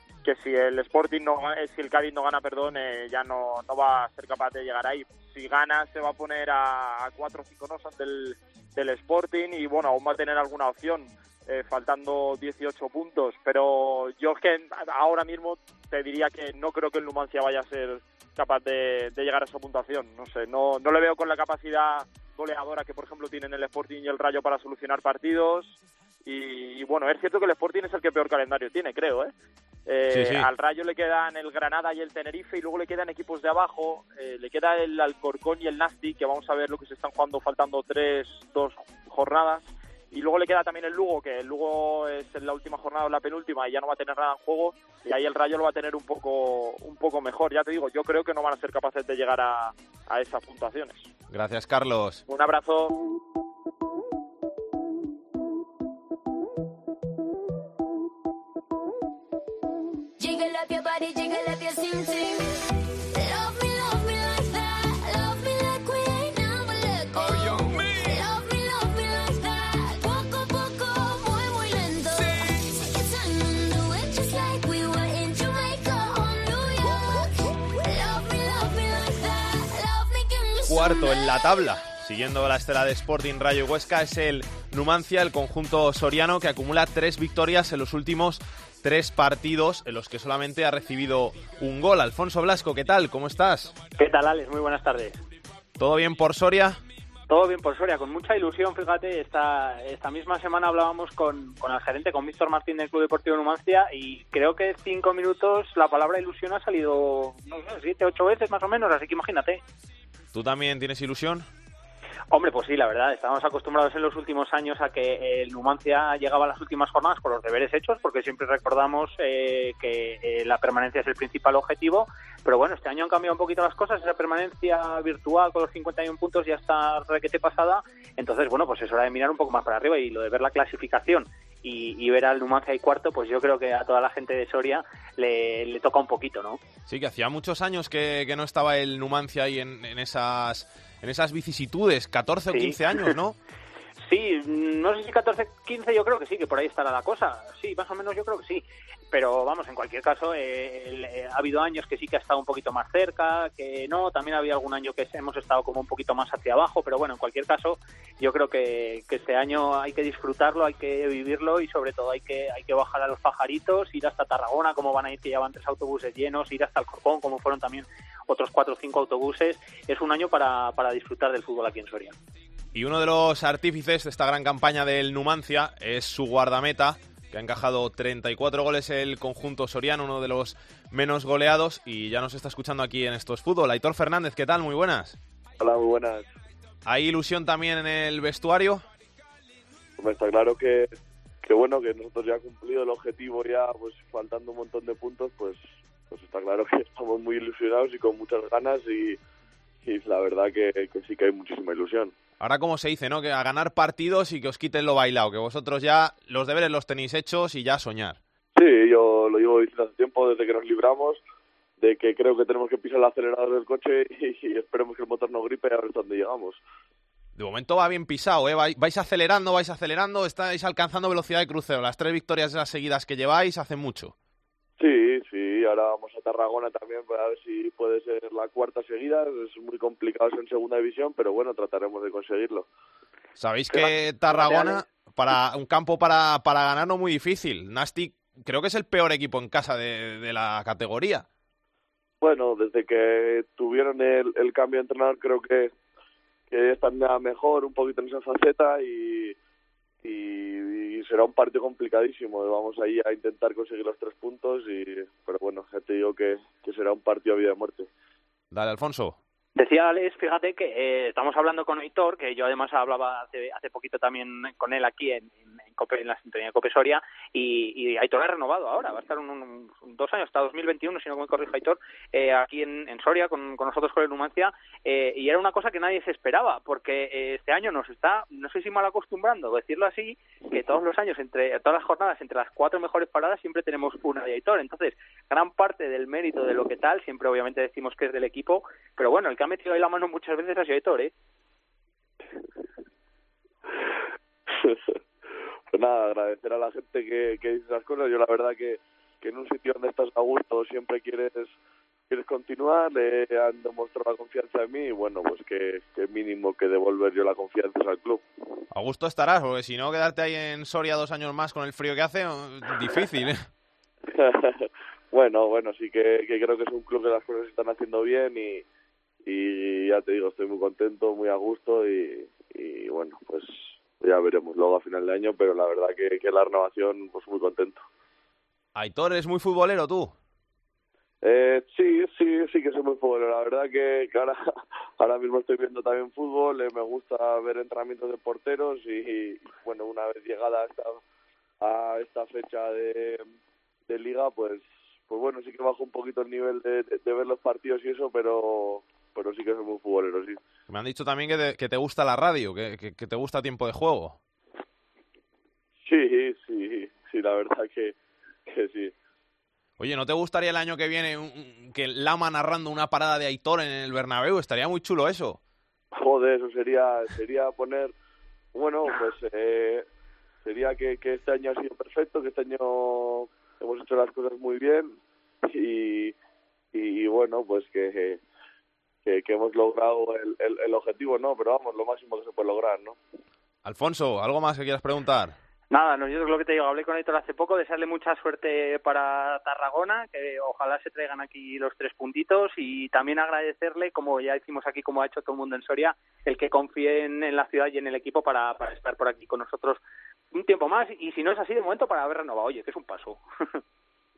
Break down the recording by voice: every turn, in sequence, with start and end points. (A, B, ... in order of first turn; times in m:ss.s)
0:00.2-0:29.3 A
0:29.8-0:51.1 A
0:30.1-0:30.5 B
0:51.3-0:52.2 B
0:52.3-0:52.9 A
1:00.2-1:02.6 C
1:03.1-1:21.5 C
1:20.6-1:33.8 B
1:34.0-1:35.2 D
1:35.8-1:36.8 B
1:37.3-1:49.6 D
1:50.3-1:51.5 B
1:52.3-2:16.6 D
2:16.9-2:23.4 B
2:22.5-2:22.8 D
2:24.0-2:52.2 D
2:52.7-3:05.2 B
3:05.6-3:06.3 E
3:06.8-3:08.8 B
3:10.0-3:10.9 E
3:11.4-3:19.2 E
3:19.8-3:22.1 E
3:22.4-3:28.2 B
3:28.5-3:31.2 E
3:31.8-3:36.6 E
3:37.4-3:44.1 B
3:44.8-3:52.6 E
3:53.4-4:01.2 B
3:54.4-3:54.8 D
4:02.2-4:05.7 E
4:06.5-4:09.4 E
4:10.0-4:17.9 E
4:18.5-4:19.2 B
4:19.6-4:51.1 D
4:55.7-5:01.5 E
5:02.1-5:08.2 E
5:08.7-5:13.5 B
5:14.1-5:18.6 E
5:19.2-5:27.8 E
5:28.7-5:30.1 B
5:31.2-5:34.4 E
5:35.0-5:41.0 E
5:41.6-5:43.2 E
5:43.9-5:50.4 E
5:50.7-5:54.2 B
5:55.8-5:57.9 E
5:58.5-5:58.9 E
5:59.8-6:05.4 B
6:05.9-6:07.9 E
6:08.5-6:09.8 E
6:10.4-6:15.0 E
6:15.5-6:16.2 E
6:16.7-6:18.2 E
6:19.0-6:23.0 E
6:23.6-6:25.4 B
6:25.7-6:39.8 D
6:40.3-6:43.2 D